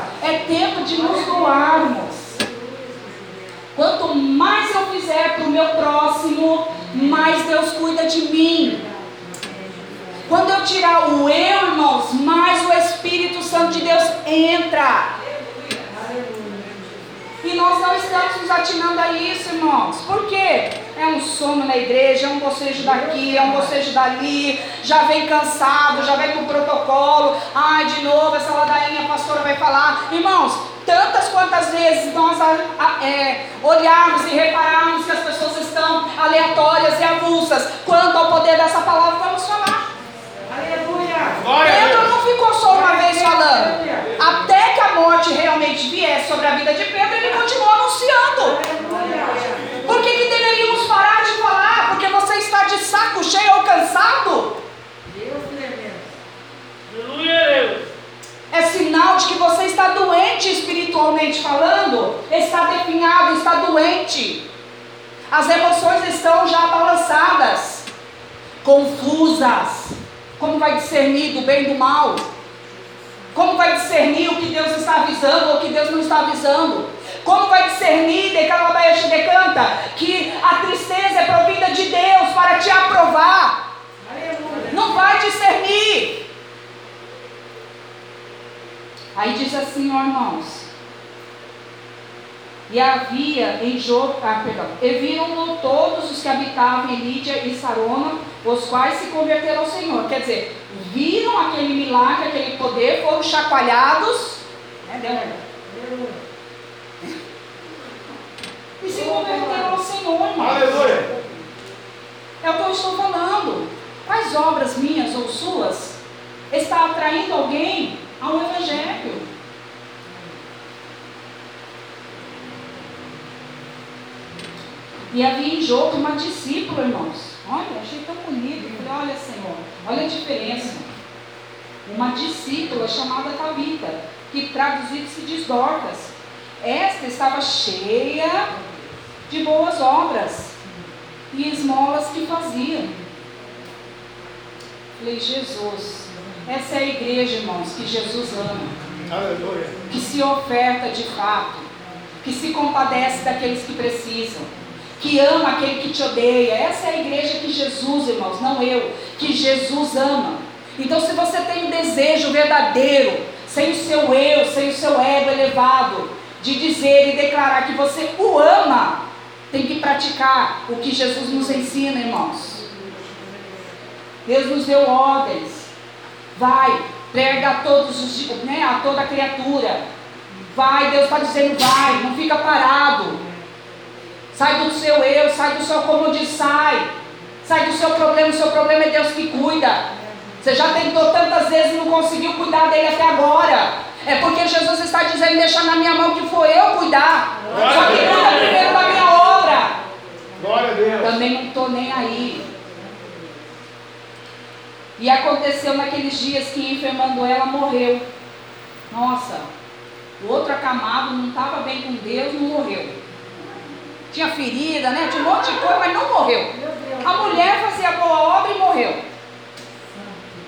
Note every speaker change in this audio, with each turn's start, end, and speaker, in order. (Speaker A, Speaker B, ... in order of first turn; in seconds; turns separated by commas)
Speaker A: 0.2-2.4, Speaker A: 3.7-8.8, Speaker A: 10.2-15.1, Speaker A: 17.4-39.9, Speaker B: 41.2-42.1, Speaker A: 41.6-48.6, Speaker A: 49.8-54.6, Speaker A: 58.5-64.4, Speaker A: 65.3-67.9, Speaker A: 68.6-72.2, Speaker A: 73.3-83.6, Speaker A: 84.6-86.2, Speaker A: 89.1-90.7, Speaker A: 92.7-105.4, Speaker A: 108.8-110.9, Speaker B: 110.4-111.1, Speaker A: 112.4-116.0, Speaker A: 116.5-119.3, Speaker A: 125.1-130.9, Speaker A: 131.8-138.5, Speaker A: 139.3-140.6, Speaker A: 141.3-142.9, Speaker A: 145.0-148.8, Speaker B: 149.1-149.8, Speaker A: 149.9-151.7, Speaker A: 152.2-169.0, Speaker A: 169.5-172.6, Speaker A: 174.2-175.7, Speaker A: 176.3-179.9, Speaker A: 180.4-183.2, Speaker A: 184.3-186.9, Speaker A: 187.4-189.8, Speaker A: 190.4-199.8, Speaker B: 197.5-198.3, Speaker B: 200.4-201.2, Speaker A: 201.0-202.5, Speaker A: 205.0-208.1, Speaker A: 208.9-209.5, Speaker A: 210.2-213.0, Speaker A: 214.1-219.0